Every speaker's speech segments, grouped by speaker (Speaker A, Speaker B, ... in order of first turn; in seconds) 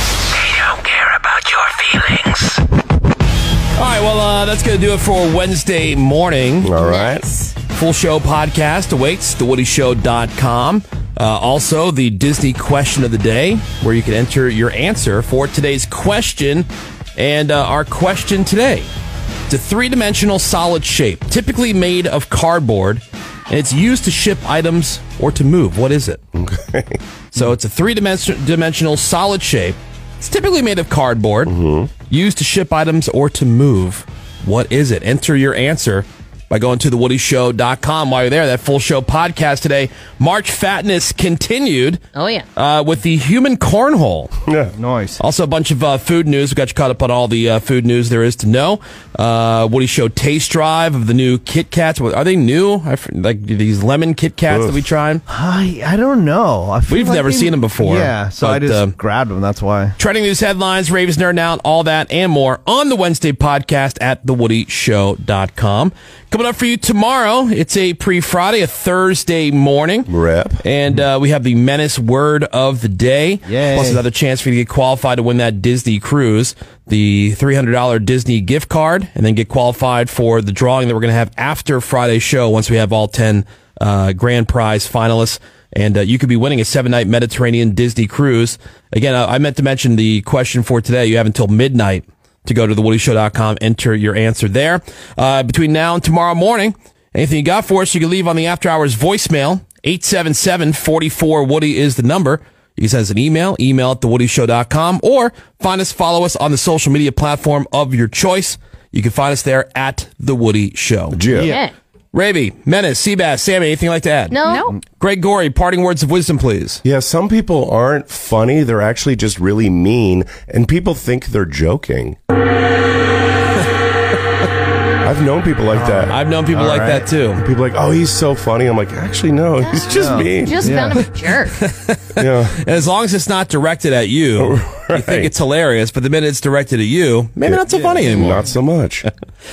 Speaker A: 0.4-2.4
Speaker B: 3.8-6.7, 7.7-18.9, 19.5-26.2, 27.3-31.5, 32.1-42.0, 42.5-44.3, 45.2-55.2, 56.9-59.0, 60.0-70.1, 70.6-111.2, 112.1-114.4, 115.0-116.8, 126.1-127.4, 131.6-138.5
Speaker C: 6.6-7.2, 26.3-27.0, 31.4-31.9, 44.5-44.7, 54.5-54.8, 70.1-70.6, 111.1-111.6, 116.8-122.2, 125.0-126.2, 127.4-130.9, 132.2-132.6, 134.4-135.3, 137.4-139.1
Speaker D: 6.8-7.5, 42.1-42.4, 111.4-111.7, 114.3-114.8, 129.6-131.6
Speaker E: 44.8-45.2, 55.3-59.9, 73.5-74.0, 111.3-111.6, 114.4-114.8, 125.7-127.1, 129.8-131.0, 137.9-138.3